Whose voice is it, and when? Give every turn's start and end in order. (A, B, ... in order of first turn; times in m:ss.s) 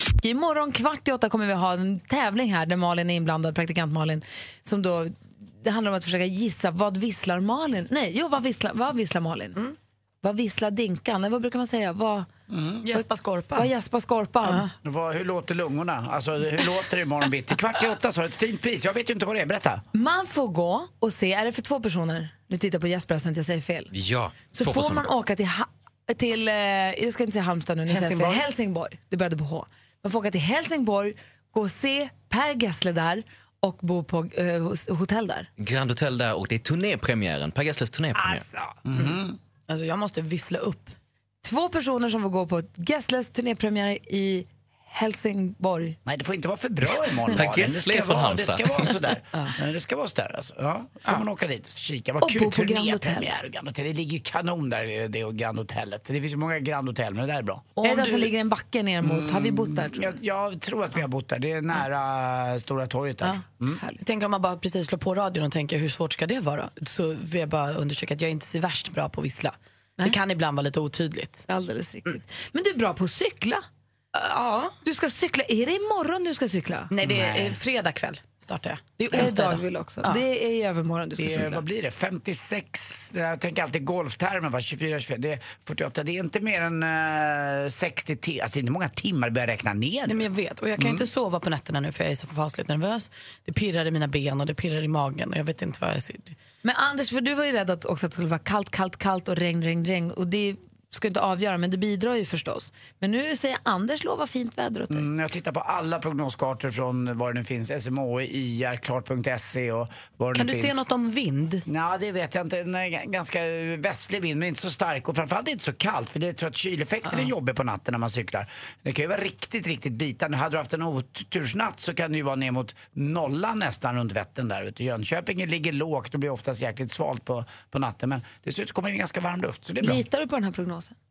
0:00.2-0:09.6 A
0:10.2-0:12.3 A
0:12.5-0:12.9 B
0:12.9-0:13.7 C
0:13.6-0:14.7 A
0:14.8-0:19.8 B
0:19.9-0:23.9 A
0:23.9-0:25.1 D
0:24.5-0:35.5 A
0:35.6-0:38.5 D
0:38.9-0:39.4 B
0:39.7-0:40.9 C
0:41.4-0:46.0 A
0:46.0-0:57.8 B
0:47.3-0:49.0 D
0:52.2-0:53.3 A
0:57.8-1:00.1 A
0:59.0-1:03.8 B
1:04.0-1:11.4 C
1:11.5-1:13.6 A
1:14.2-1:14.8 C
1:14.8-1:16.9 A
1:16.9-1:20.2 C
1:17.0-1:17.6 B
1:19.1-1:21.6 A
1:21.2-1:31.1 B
1:30.1-1:36.4 C
1:36.6-1:45.1 A
1:44.9-1:50.8 B
1:50.3-1:51.6 C
1:51.7-2:10.0 B
2:09.8-2:11.0 A